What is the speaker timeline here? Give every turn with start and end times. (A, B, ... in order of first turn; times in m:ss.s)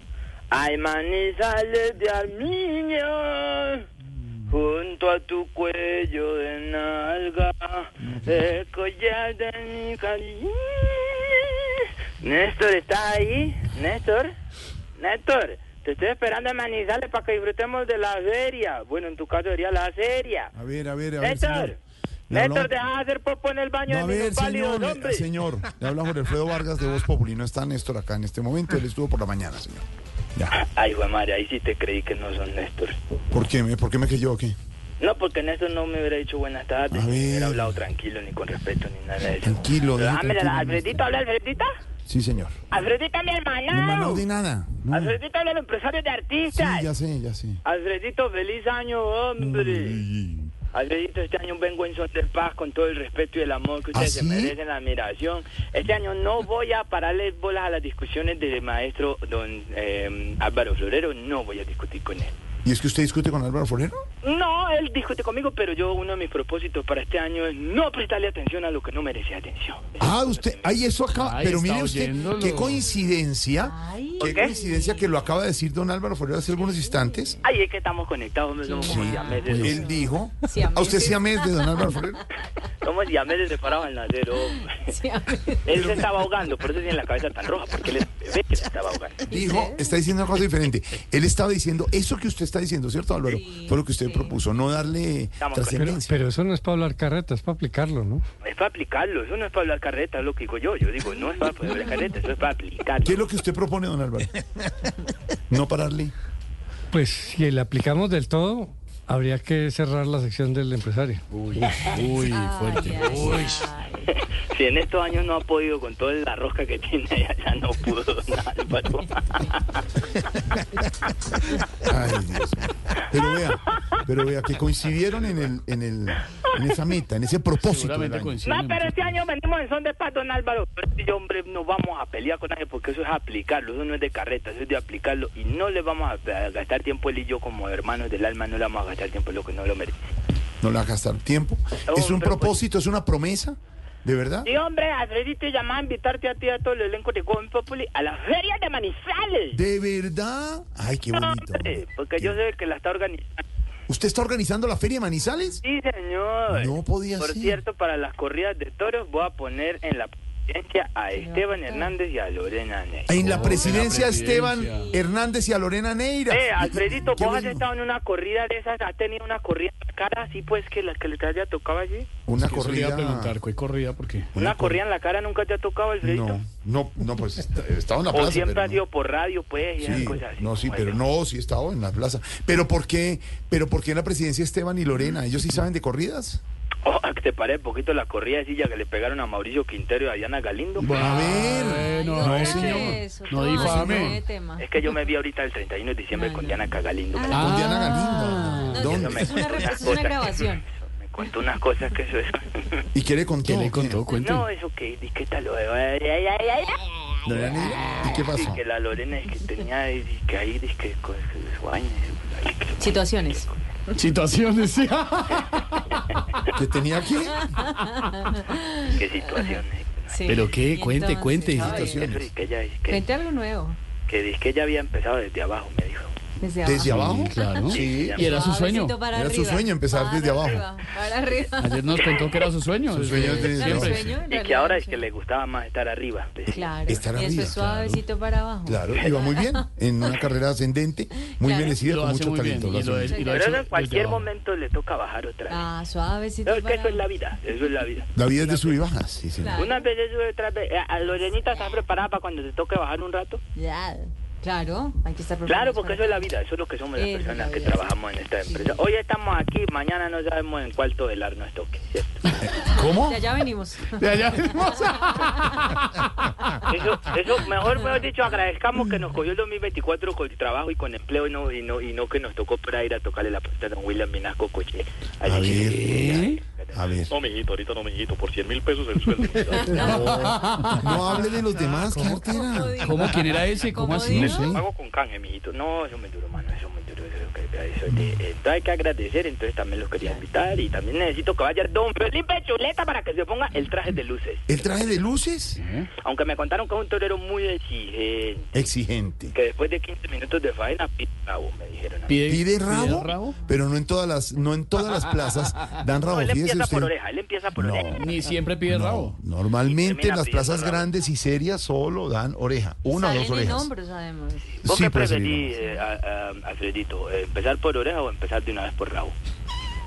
0:00.5-0:03.8 A
0:04.5-0:14.4 A
0:08.0-0:08.5 B
0:15.0-0:20.5 A
0:20.5-0:21.7 B
0:21.2-0:21.8 A
0:22.3-0:22.7 B
0:22.3-0:25.3 A
0:23.9-0:30.6 B
0:30.5-0:33.0 A
0:33.3-0:34.6 B
0:35.0-0:41.7 A
0:36.9-0:37.8 B
0:39.4-0:41.2 B
0:42.1-0:42.5 B
0:42.7-0:44.2 A
0:43.7-0:45.2 B
0:44.9-0:46.9 A
0:46.5-0:47.6 B
0:47.6-0:50.0 A
0:49.4-0:50.5 B
0:50.7-1:02.4 A
0:53.9-0:54.6 B
1:02.6-1:04.0 B
1:04.2-1:10.8 A
1:10.0-1:17.4 B
1:11.2-1:12.8 C
1:13.6-1:15.2 D
1:14.2-1:14.6 A
1:16.5-1:17.6 D
1:17.4-1:19.9 A
1:18.6-1:21.9 D
1:18.9-1:22.2 B
1:19.5-1:19.8 C
1:22.8-1:24.9 A
1:24.7-1:25.8 D
1:25.6-1:29.3 A
1:25.7-1:26.1 B
1:29.3-1:30.0 D
1:29.3-1:36.1 B
1:33.3-1:34.4 D
1:35.4-1:36.0 A
1:35.8-1:38.2 E
1:38.4-1:43.3 A
1:43.0-1:44.4 B
1:45.5-1:46.1 B
1:46.9-1:51.2 E
1:51.3-1:53.7 C
1:52.0-1:54.1 D
1:54.1-1:59.8 A
2:01.7-2:08.4 B
2:07.6-2:09.1 C
2:08.4-2:20.1 A
2:20.6-2:24.5 B
2:21.9-2:22.6 A
2:24.4-2:29.6 A
2:29.5-2:32.4 B
2:31.1-2:33.4 A
2:33.9-2:35.6 B
2:35.6-2:43.2 A
2:36.5-2:37.6 B
2:41.1-2:41.9 D
2:43.1-2:47.6 B
2:43.2-2:44.9 C
2:43.4-2:45.2 D
2:46.3-2:52.1 A
2:52.3-2:53.4 B
2:52.4-2:54.3 C
2:54.4-2:54.8 B
2:54.4-2:56.4 A
2:56.0-2:58.8 B
2:58.1-3:01.0 A
2:59.8-3:06.4 B
3:06.8-3:11.6 A
3:10.8-3:14.2 C
3:10.8-3:13.0 B
3:11.7-3:14.7 D
3:13.6-3:13.9 B
3:14.0-3:17.5 A
3:16.1-3:20.6 D
3:17.3-3:19.0 C
3:17.3-3:19.4 B
3:18.8-3:22.8 A
3:22.9-3:24.0 B
3:23.4-3:24.4 C
3:24.1-3:33.6 A
3:27.2-3:28.6 B
3:32.8-3:34.0 D
3:34.0-3:36.2 C
3:36.5-3:37.5 B
3:37.4-3:39.4 D
3:38.8-3:40.2 A
3:40.1-3:42.0 D
3:40.3-3:41.9 C
3:41.6-3:42.3 B
3:41.8-3:43.0 A
3:42.9-3:43.8 D
3:44.1-3:46.2 A
3:46.4-3:52.4 D
3:46.6-3:48.4 B
3:46.8-3:49.0 C
3:47.7-3:48.4 A
3:49.1-3:50.7 B
3:51.6-3:54.2 C
3:52.9-3:54.1 B
3:53.3-3:55.0 D
3:54.3-3:57.0 A
3:56.5-4:00.2 D
3:56.9-3:57.6 B
3:57.5-3:58.0 C
3:58.6-4:03.2 B
3:58.9-3:59.4 A
4:01.3-4:01.8 D
4:01.8-4:04.2 C
4:02.6-4:03.5 D
4:03.3-4:05.7 A
4:05.5-4:07.0 D
4:06.4-4:08.8 A
4:08.2-4:09.6 B
4:09.4-4:09.9 D
4:09.6-4:13.4 A
4:13.6-4:16.3 D
4:15.5-4:22.3 A
4:17.0-4:18.8 D
4:22.4-4:23.2 B
4:22.7-4:25.7 D
4:24.0-4:26.3 C
4:26.7-4:37.4 A
4:35.2-4:36.2 B
4:35.8-4:36.4 C
4:36.7-4:37.1 B
4:37.1-4:40.4 F
4:39.5-4:39.8 A
4:39.6-4:40.0 D
4:39.8-4:41.0 C
4:39.9-4:43.1 B
4:42.0-4:44.5 D
4:42.8-4:44.5 C
4:44.0-4:44.6 B
4:44.2-4:55.0 A
4:54.5-4:55.6 B
4:55.6-4:55.9 C
4:56.0-4:58.6 A
4:58.5-4:59.4 B
4:59.3-5:02.2 A
5:02.1-5:03.4 C
5:02.3-5:06.9 B
5:03.1-5:03.6 D
5:06.1-5:08.3 A
5:07.6-5:13.7 B
5:08.0-5:09.2 C
5:09.6-5:10.9 A
5:12.9-5:14.6 D
5:14.6-5:15.6 B
5:14.6-5:19.2 A
5:15.6-5:15.9 D